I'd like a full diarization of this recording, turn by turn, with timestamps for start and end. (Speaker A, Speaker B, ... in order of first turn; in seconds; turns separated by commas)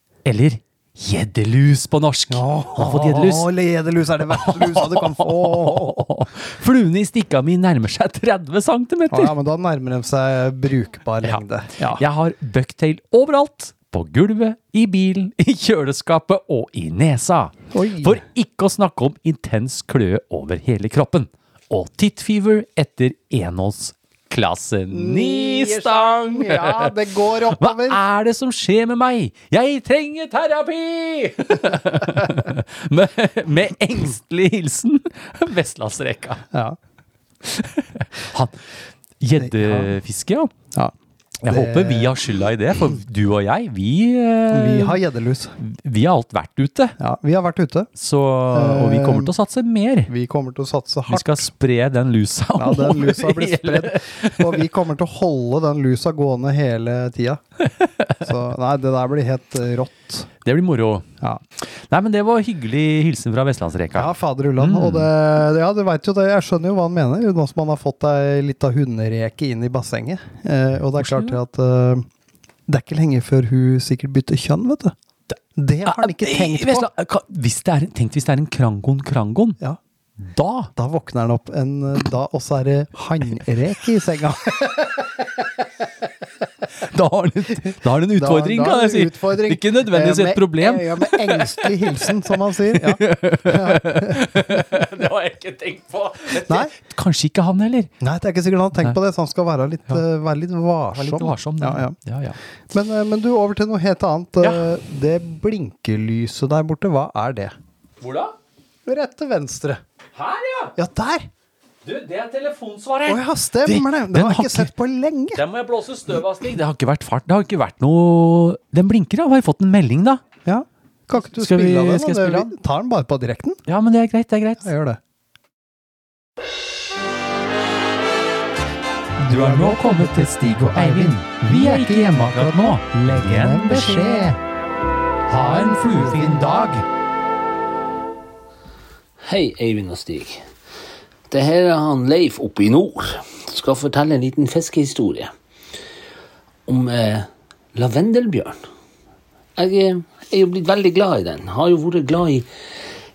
Speaker A: 0.2-3.5, Speaker B: 2.3-6.0, Speaker A: 4.3-9.3, Speaker B: 9.1-12.0, Speaker A: 11.2-26.9, Speaker B: 17.7-18.2, Speaker B: 24.9-28.0, Speaker A: 27.5-36.4, Speaker B: 36.5-36.8, Speaker A: 37.4-38.7, Speaker A: 39.2-40.5, Speaker B: 39.4-39.9, Speaker A: 41.4-45.0, Speaker B: 41.5-42.1, Speaker B: 44.5-45.5, Speaker A: 45.6-47.0, Speaker B: 47.0-47.9, Speaker A: 48.0-50.1, Speaker B: 48.5-49.3, Speaker B: 50.1-51.5, Speaker A: 51.1-54.6, Speaker B: 52.6-57.4, Speaker A: 57.6-58.3, Speaker B: 58.2-60.3, Speaker A: 60.4-65.1, Speaker B: 63.9-72.0, Speaker A: 71.0-71.4, Speaker B: 72.7-74.9, Speaker B: 75.5-76.9, Speaker A: 75.8-79.6, Speaker A: 80.2-80.7, Speaker B: 80.8-85.2, Speaker A: 86.8-92.1, Speaker B: 88.1-94.6, Speaker A: 92.7-97.9, Speaker B: 96.4-96.7, Speaker B: 98.0-102.0, Speaker A: 100.9-102.4, Speaker B: 102.7-107.5, Speaker A: 108.0-108.3, Speaker B: 108.8-109.8, Speaker A: 110.2-110.7, Speaker B: 110.8-111.3, Speaker A: 111.8-114.7, Speaker B: 113.0-115.4, Speaker A: 115.3-120.2, Speaker B: 120.4-123.6, Speaker A: 121.1-122.5, Speaker A: 123.7-124.7, Speaker B: 124.6-125.0, Speaker A: 129.2-134.3, Speaker B: 133.0-134.3, Speaker A: 135.3-136.8, Speaker C: 139.2-140.4, Speaker C: 141.3-145.3, Speaker C: 146.7-148.6, Speaker C: 149.6-152.5